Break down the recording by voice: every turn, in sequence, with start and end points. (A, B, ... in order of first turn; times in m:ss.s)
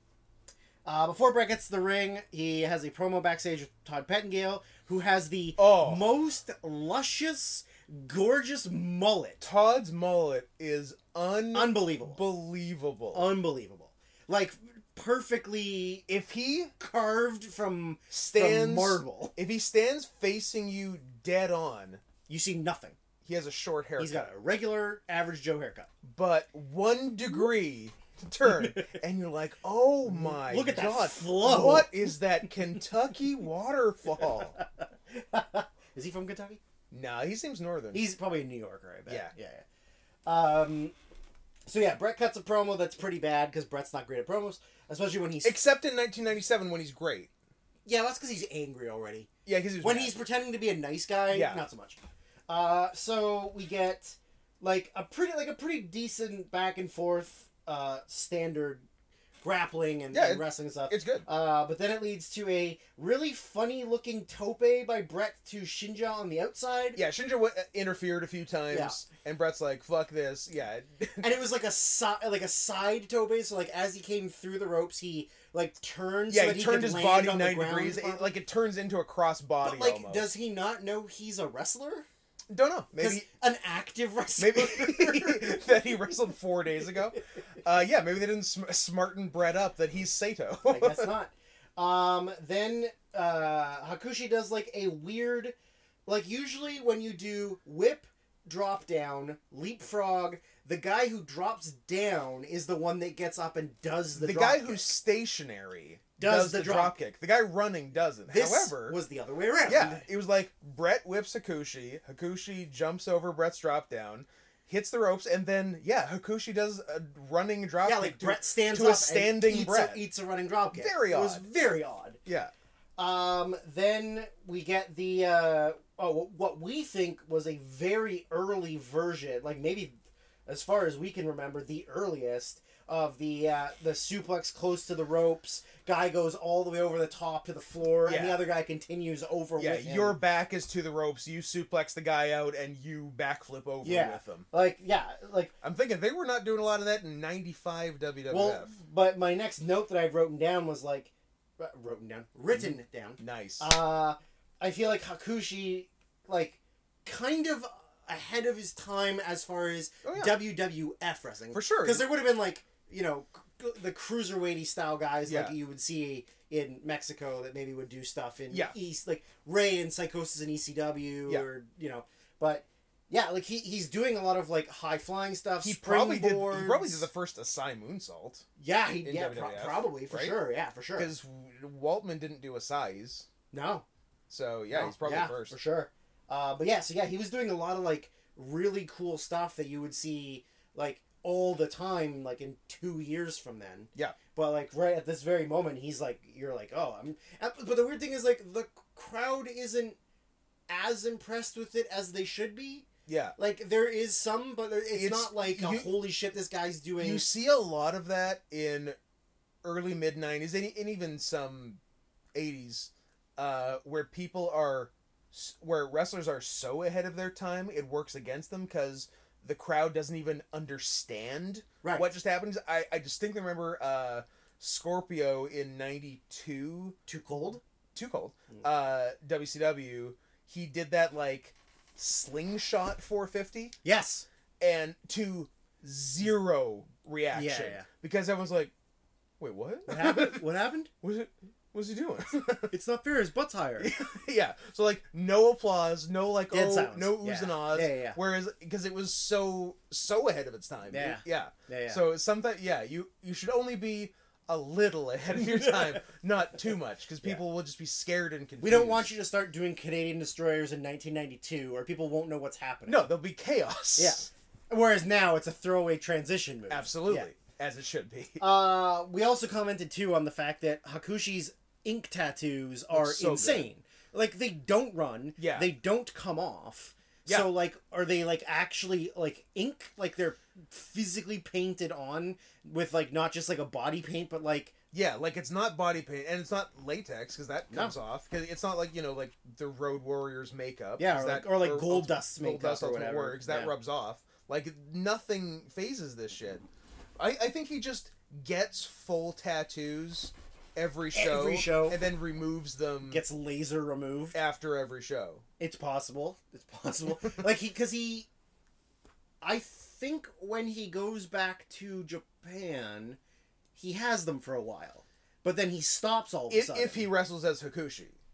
0:00.8-0:09.4 A
0:05.6-0:06.1 B
0:09.4-0:13.3 B
0:11.5-0:12.2 A
0:13.1-0:16.0 A
0:16.1-0:16.7 B
0:16.8-0:19.3 A
0:18.1-0:22.0 B
0:22.3-0:23.0 A
0:23.2-0:24.3 B
0:24.0-0:25.9 A
0:26.0-0:34.6 B
0:28.4-0:28.8 A
0:30.0-0:31.9 A
0:34.4-0:36.6 A
0:36.9-0:38.0 B
0:37.9-0:39.6 A
0:40.2-0:40.9 A
0:41.6-0:45.6 A
0:45.4-0:47.3 B
0:47.8-0:49.3 A
0:49.4-0:50.2 B
0:49.8-0:58.8 A
0:51.3-0:51.6 B
0:59.4-1:07.0 A
1:00.1-1:01.2 B
1:06.9-1:11.3 B
1:08.7-1:09.0 A
1:11.2-1:18.3 A
1:16.3-1:20.3 B
1:19.6-1:22.0 A
1:22.5-1:23.2 B
1:23.0-1:25.6 A
1:24.4-1:31.1 B
1:30.7-1:35.5 A
1:36.0-1:44.9 A
1:44.2-1:49.0 B
1:46.2-1:47.0 A
1:48.3-1:50.0 A
1:49.6-2:00.0 B
1:57.8-2:02.2 A
2:00.7-2:01.4 B
2:02.2-2:02.5 B
2:03.0-2:20.2 A
2:18.0-2:18.4 B
2:19.6-2:24.5 B
2:23.8-2:25.5 A
2:25.6-2:28.7 B
2:28.3-2:57.1 A
2:32.5-2:33.7 B
2:40.0-2:40.4 B
2:41.5-2:42.1 B
2:45.2-2:45.5 B
2:55.6-2:58.5 B
2:58.6-3:01.1 A
2:59.0-3:00.4 B
3:01.0-3:03.3 B
3:03.5-3:03.8 A
3:04.3-3:05.6 B
3:04.7-3:20.0 A
3:20.7-3:27.2 A
3:23.1-3:23.4 B
3:24.9-3:25.9 B
3:27.0-3:29.0 B
3:29.6-3:31.8 B
3:32.3-3:47.0 B
3:41.8-3:42.1 A
3:47.1-3:47.6 A
3:47.9-3:53.7 B
3:53.8-3:54.2 A
3:54.6-3:58.7 B
3:57.3-3:57.8 A
3:59.4-4:00.4 B
3:59.9-4:00.9 A
4:01.0-4:02.7 B
4:02.7-4:03.9 A
4:03.8-4:19.1 B
4:06.5-4:08.2 A
4:10.9-4:12.0 A
4:15.4-4:15.8 A
4:18.6-4:23.1 A
4:22.8-4:24.3 B
4:24.0-4:27.3 A
4:26.7-4:28.4 B
4:28.4-4:44.7 A
4:32.9-4:33.7 B
4:35.4-4:35.7 B
4:37.2-4:37.5 B
4:44.9-4:56.6 B
4:51.0-4:53.7 A
4:57.2-5:03.2 B
5:01.1-5:02.0 A
5:03.1-5:04.4 A
5:04.3-5:05.4 B
5:05.6-5:08.3 A
5:09.4-5:13.2 A
5:13.8-5:17.1 A
5:16.5-5:18.2 B